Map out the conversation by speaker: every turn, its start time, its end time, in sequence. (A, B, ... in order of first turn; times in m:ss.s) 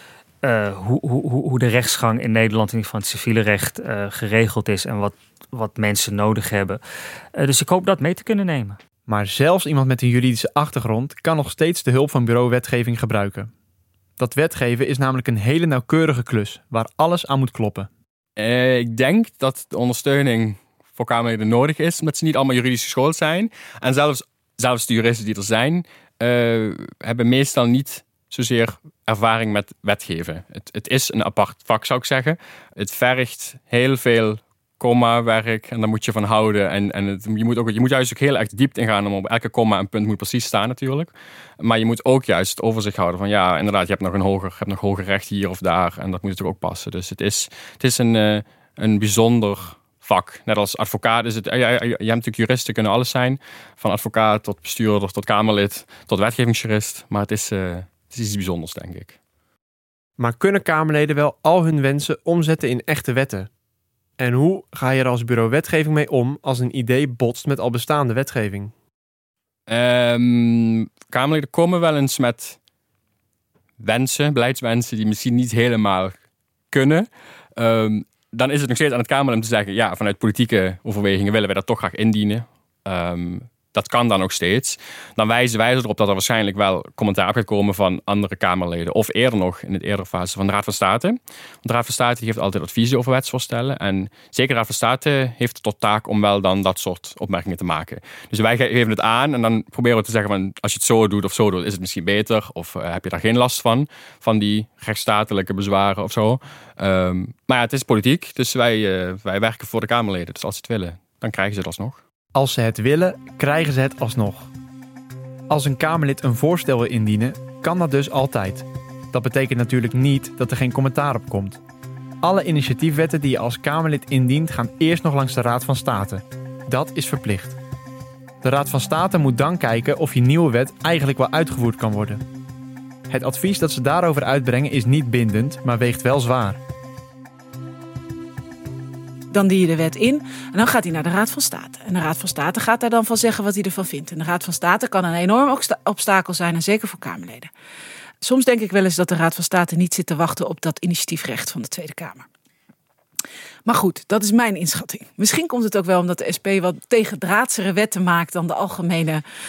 0:00.4-0:06.8 A
0:07.4-0:08.8 A
0:09.1-0:13.5 B
0:14.2-0:17.9 B
0:18.4-0:59.2 C
1:00.2-1:03.5 B
1:04.2-1:08.7 B
1:09.7-1:12.6 C
1:13.8-1:52.0 C
1:52.4-1:54.5 B
1:55.5-2:01.6 B
2:02.2-2:07.6 B
2:08.4-2:12.2 B
2:13.1-2:16.6 B
2:19.3-2:27.5 D
2:28.2-2:32.3 D
2:33.7-2:39.2 D